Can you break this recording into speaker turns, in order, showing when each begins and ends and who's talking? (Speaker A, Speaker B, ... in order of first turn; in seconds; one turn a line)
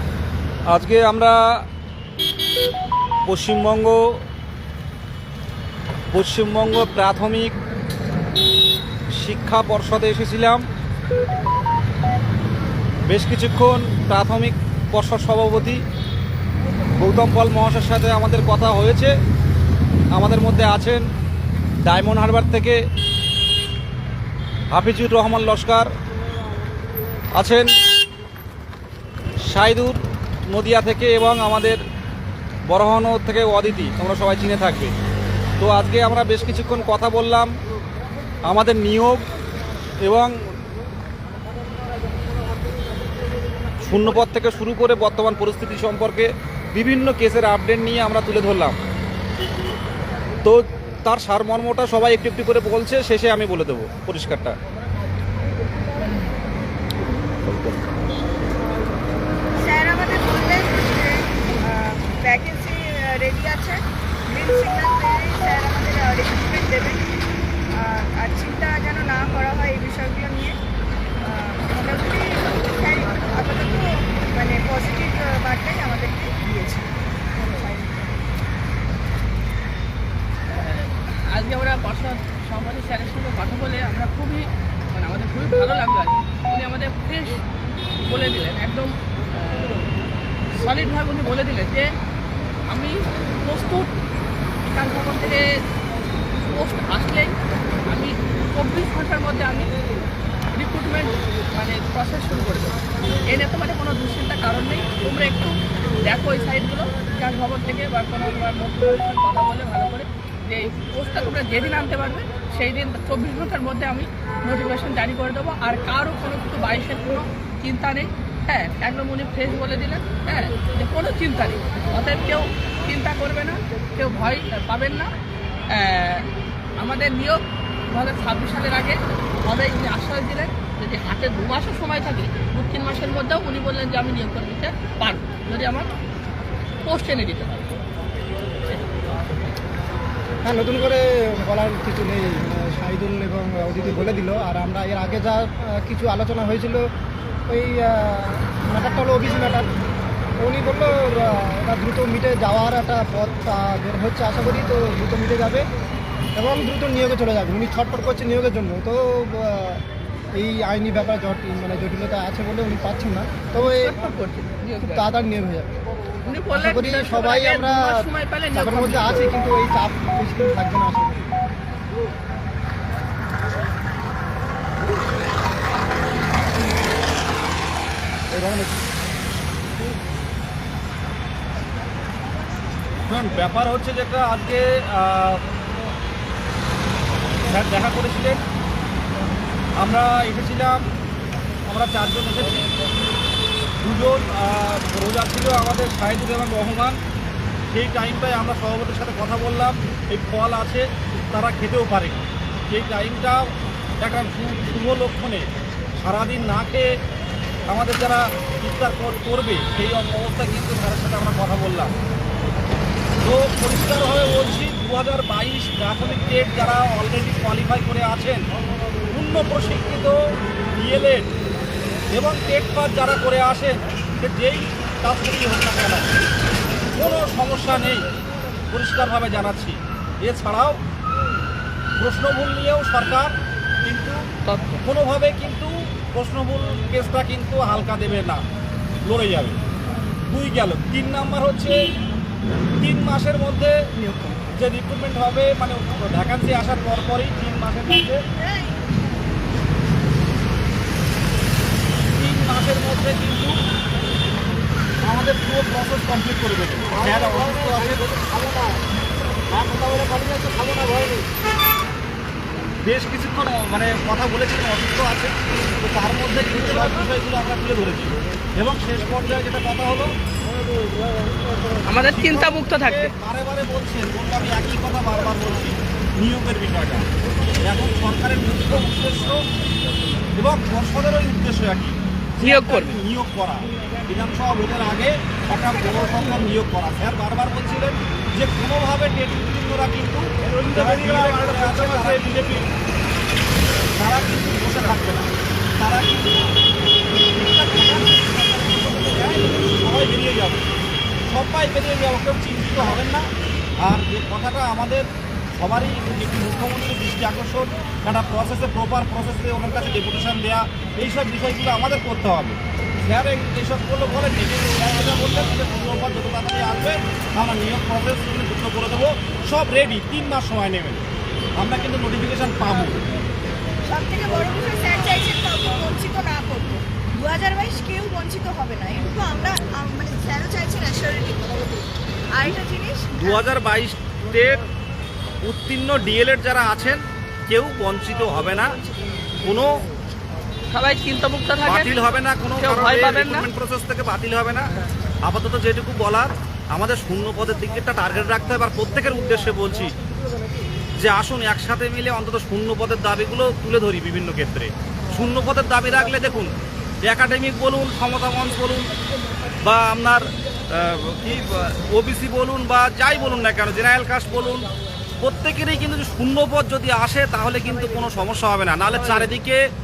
Speaker A: 0.7-1.4
Speaker A: 3.3-4.0
Speaker A: 6.1-7.5
Speaker A: 9.2-10.6
Speaker A: 13.1-15.8
Speaker A: 17.0-19.1
Speaker A: 20.1-21.0
Speaker A: 21.8-22.8
Speaker A: 24.7-25.9
Speaker A: 27.4-27.7
Speaker A: 29.5-31.8
Speaker A: 32.7-34.9
Speaker A: 35.6-37.5
Speaker A: 38.5-39.2
Speaker A: 40.0-40.3
Speaker A: 43.8-48.8
Speaker A: 50.4-54.5
Speaker B: 59.5-67.0
Speaker B: 67.7-70.5
Speaker B: 71.2-76.9
Speaker B: 77.5-78.2
Speaker C: 80.5-87.4
Speaker C: 88.0-89.9
Speaker C: 90.5-91.9
Speaker C: 92.7-93.9
Speaker C: 94.6-95.4
Speaker C: 96.5-97.3
Speaker C: 97.9-99.7
Speaker C: 100.5-102.8
Speaker C: 103.3-105.5
Speaker C: 106.0-125.1
Speaker C: 125.7-135.9
Speaker C: 136.8-137.8
Speaker D: 140.4-146.8
Speaker D: 147.5-149.7
Speaker D: 150.4-155.7
Speaker D: 156.3-159.8
Speaker D: 160.3-164.0
Speaker C: 163.6-165.1
Speaker D: 164.8-165.8
Speaker C: 166.2-169.3
Speaker D: 166.5-171.3
Speaker A: 178.3-178.8
Speaker A: 183.1-185.4
Speaker A: 187.4-188.4
Speaker A: 189.8-190.8
Speaker A: 191.7-192.7
Speaker A: 193.8-197.0
Speaker A: 197.7-203.4
Speaker A: 204.0-205.5
Speaker A: 206.0-206.9
Speaker A: 207.7-211.9
Speaker A: 213.2-218.4
Speaker A: 219.1-220.2
Speaker A: 220.7-221.3
Speaker A: 222.1-226.1
Speaker A: 226.9-228.0
Speaker A: 228.7-230.8
Speaker A: 232.0-233.3
Speaker A: 233.8-234.2
Speaker C: 234.4-234.8
Speaker A: 234.8-238.4
Speaker A: 239.0-239.6
Speaker A: 240.3-241.8
Speaker A: 242.8-243.7
Speaker C: 244.0-244.4
Speaker A: 244.5-248.2
Speaker B: 248.4-248.8
Speaker A: 252.2-253.6
Speaker A: 255.0-258.1
Speaker D: 256.9-258.8
Speaker D: 259.5-261.2
Speaker A: 262.8-270.1
Speaker C: 271.8-273.1
Speaker A: 272.0-277.1
Speaker A: 277.6-279.4
Speaker A: 280.4-292.6
Speaker C: 282.4-282.9
Speaker A: 293.9-296.5
Speaker A: 297.3-300.7
Speaker A: 301.3-303.3
Speaker A: 303.8-321.0
Speaker A: 321.6-323.0
Speaker B: 323.9-331.5
Speaker B: 332.3-333.4
Speaker A: 333.2-334.6
Speaker A: 335.4-338.7
Speaker A: 339.4-339.8
Speaker C: 340.7-342.0
Speaker A: 341.6-344.7
Speaker C: 342.6-343.5
Speaker A: 345.2-349.9
Speaker A: 351.0-358.9
Speaker A: 359.6-364.7
Speaker A: 365.2-369.6
Speaker C: 368.9-369.3